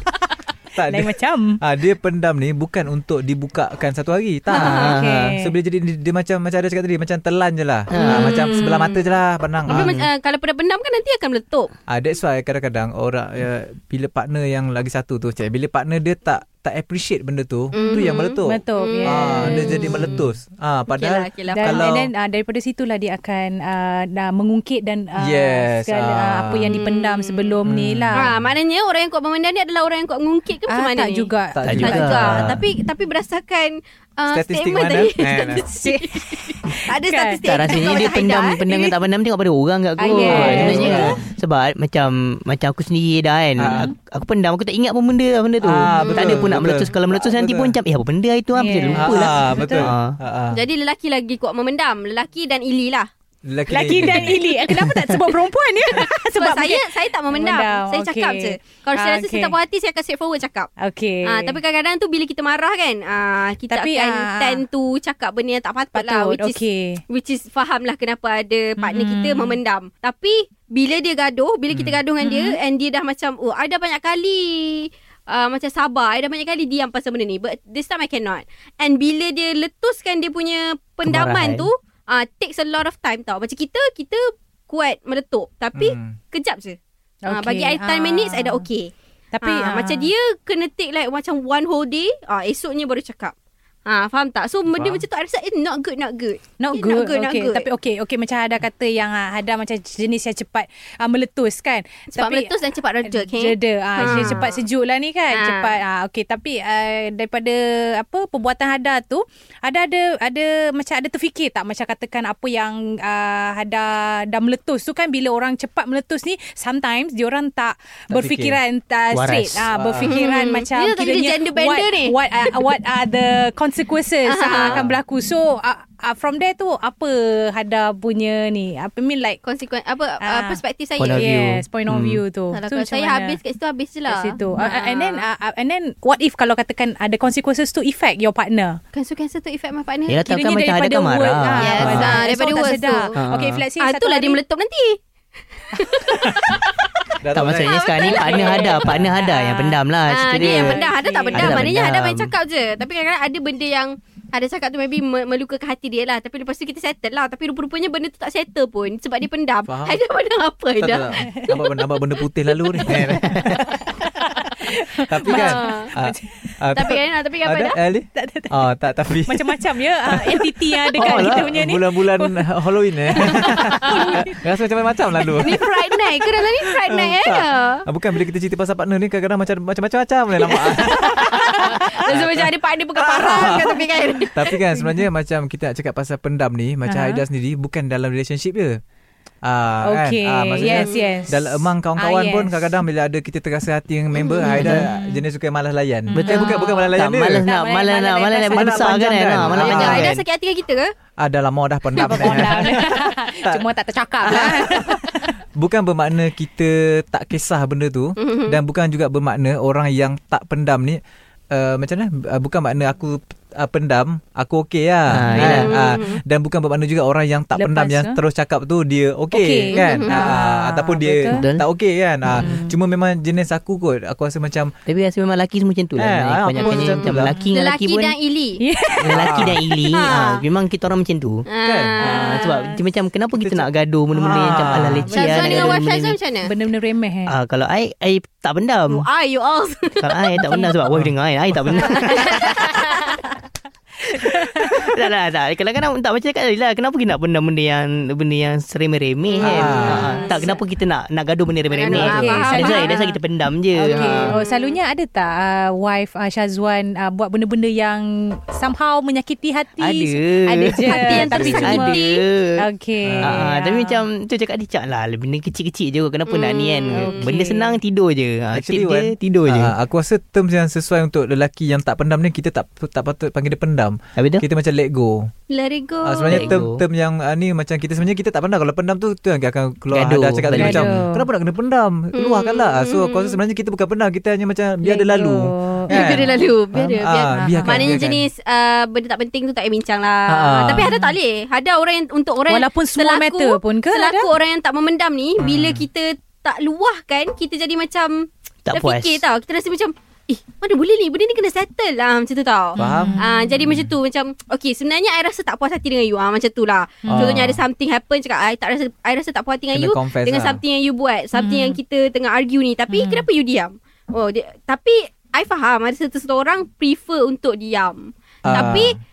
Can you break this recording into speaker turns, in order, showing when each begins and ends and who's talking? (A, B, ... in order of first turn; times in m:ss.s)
0:00.8-0:10.1 A
0:00.8-0:01.6 B
0:04.5-0:05.0 C
0:04.5-0:05.3 D
0:04.6-0:05.5 B
0:07.9-0:08.6 D
0:08.0-0:09.1 C
0:09.7-0:11.7 C
0:09.7-0:10.0 D
0:11.9-0:22.1 A
0:17.8-0:20.2 C
0:18.5-0:19.9 B
0:20.9-0:21.9 C
0:21.5-0:28.3 B
0:25.2-0:26.8 A
0:26.7-0:27.5 C
0:27.7-0:28.5 A
0:28.1-0:39.0 C
0:30.7-0:31.9 B
0:31.5-0:32.6 A
0:31.7-0:32.5 D
0:34.3-0:35.6 A
0:35.7-0:37.4 B
0:37.4-0:50.2 D
0:40.0-0:41.2 B
0:40.2-0:41.3 A
0:40.2-0:41.1 C
0:43.6-0:43.9 A
0:45.6-0:47.8 A
0:45.9-0:46.9 C
0:48.5-0:49.9 B
0:49.0-0:50.6 A
0:50.5-0:53.1 C
0:53.4-0:54.7 A
0:53.7-0:59.6 B
0:56.4-1:00.7 C
1:00.8-1:01.6 B
1:01.2-1:06.6 C
1:03.7-1:04.6 B
1:06.0-1:07.0 B
1:07.1-1:26.8 C
1:08.8-1:09.6 B
1:11.7-1:12.0 A
1:12.2-1:12.6 B
1:21.0-1:21.7 D
1:25.8-1:26.2 A
1:27.3-1:28.6 B
1:27.3-1:33.3 C
1:29.3-1:30.1 B
1:33.9-1:37.7 C
1:34.7-1:35.0 A
1:36.6-1:42.5 B
1:42.1-1:44.6 C
1:43.1-2:09.4 B
1:44.0-1:44.4 A
1:45.3-1:45.8 C
1:58.1-1:58.6 A
1:59.1-1:59.7 D
1:59.7-2:00.2 A
2:00.0-2:02.2 C
2:04.3-2:04.8 C
2:04.5-2:04.9 A
2:09.4-2:11.2 C
2:10.2-2:10.6 B
2:11.0-2:12.2 D
2:11.2-2:13.4 B
2:12.5-2:15.2 C
2:14.1-2:18.8 B
2:18.9-2:20.2 C
2:20.1-2:22.2 D
2:20.3-2:24.4 B
2:21.6-2:23.2 C
2:21.8-2:22.1 A
2:23.2-2:23.6 D
2:23.8-2:25.0 C
2:25.7-2:26.9 C
2:25.8-2:26.2 B
2:27.2-2:27.8 A
2:27.3-2:32.3 D
2:27.4-2:28.9 C
2:28.1-2:29.8 B
2:28.9-2:29.1 A
2:30.1-2:42.2 C
2:30.4-2:31.5 B
2:39.7-2:40.0 A
2:40.8-2:43.7 A
2:43.1-2:46.5 B
2:45.1-3:03.8 A
2:45.3-2:45.9 C
2:46.7-2:47.8 C
2:48.2-2:48.5 B
2:49.3-2:52.4 B
2:51.0-2:51.4 D
2:53.2-2:54.4 B
2:53.9-2:54.2 C
2:55.4-2:57.8 C
3:00.6-3:04.6 C
3:01.1-3:01.6 B
3:04.3-3:08.8 A
3:06.9-3:07.2 B
3:09.4-3:17.5 A
3:09.8-3:11.4 B
3:10.7-3:11.2 C
3:12.0-3:12.6 B
3:14.2-3:14.5 C
3:14.4-3:15.2 B
3:14.6-3:14.8 D
3:16.1-3:19.1 B
3:16.1-3:20.2 D
3:18.5-3:20.1 A
3:19.5-3:20.9 C
3:21.2-3:23.6 A
3:22.0-3:25.3 B
3:24.2-3:25.0 A
3:25.6-3:31.0 A
3:28.2-3:28.6 C
3:31.5-3:44.8 A
3:35.1-3:35.7 D
3:35.4-3:36.2 C
3:37.6-3:38.2 B
3:39.3-3:41.4 B
3:39.7-3:40.3 C
3:41.3-3:41.6 D
3:42.3-3:42.6 D
3:42.4-3:42.7 B
3:44.9-3:48.1 D
3:46.0-3:47.4 A
3:46.6-3:48.6 C
3:48.6-3:49.6 B
3:49.0-3:51.5 D
3:49.1-3:49.6 A
3:49.9-3:50.4 C
3:51.5-3:52.5 C
3:51.6-3:52.0 A
3:52.0-3:52.8 B
3:52.0-3:56.2 D
3:53.4-3:55.1 A
3:54.6-3:55.8 B
3:55.1-3:56.5 C
3:56.4-3:57.3 B
3:57.3-3:59.1 D
3:58.9-4:00.4 C
4:00.0-4:02.8 D
4:00.4-4:00.7 B
4:00.9-4:01.8 A
4:01.9-4:02.4 C
4:02.0-4:03.2 B
4:04.0-4:05.0 B
4:04.7-4:14.4 D
4:09.3-4:10.6 C
4:09.4-4:10.2 A
4:09.6-4:10.6 B
4:11.7-4:13.1 C
4:11.9-4:13.2 B
4:13.8-4:22.0 B
4:13.9-4:14.8 C
4:19.8-4:22.6 D
4:20.9-4:22.2 C
4:21.3-4:21.8 A
4:22.6-4:24.0 B
4:23.0-4:23.5 A
4:23.2-4:29.7 D
4:26.3-4:27.3 C
4:26.9-4:27.8 B
4:28.5-4:35.3 A
4:34.2-4:34.4 D
4:35.5-4:36.6 C
4:36.0-4:48.3 A
4:36.3-4:36.8 D
4:39.9-4:41.0 D
4:40.5-4:41.3 B
4:42.2-4:43.4 C
4:44.8-4:46.0 B
4:45.9-5:19.0 C
4:47.3-4:48.0 B
4:50.3-4:51.0 A
4:50.8-4:51.2 B
4:52.5-4:54.3 B
4:55.4-4:55.9 A
4:58.7-4:59.2 D
5:02.8-5:03.2 A
5:02.8-5:03.5 B
5:07.0-5:07.3 B
5:07.1-5:07.6 A
5:09.7-5:10.6 A
5:11.3-5:11.8 B
5:12.9-5:13.3 B
5:18.4-5:19.0 A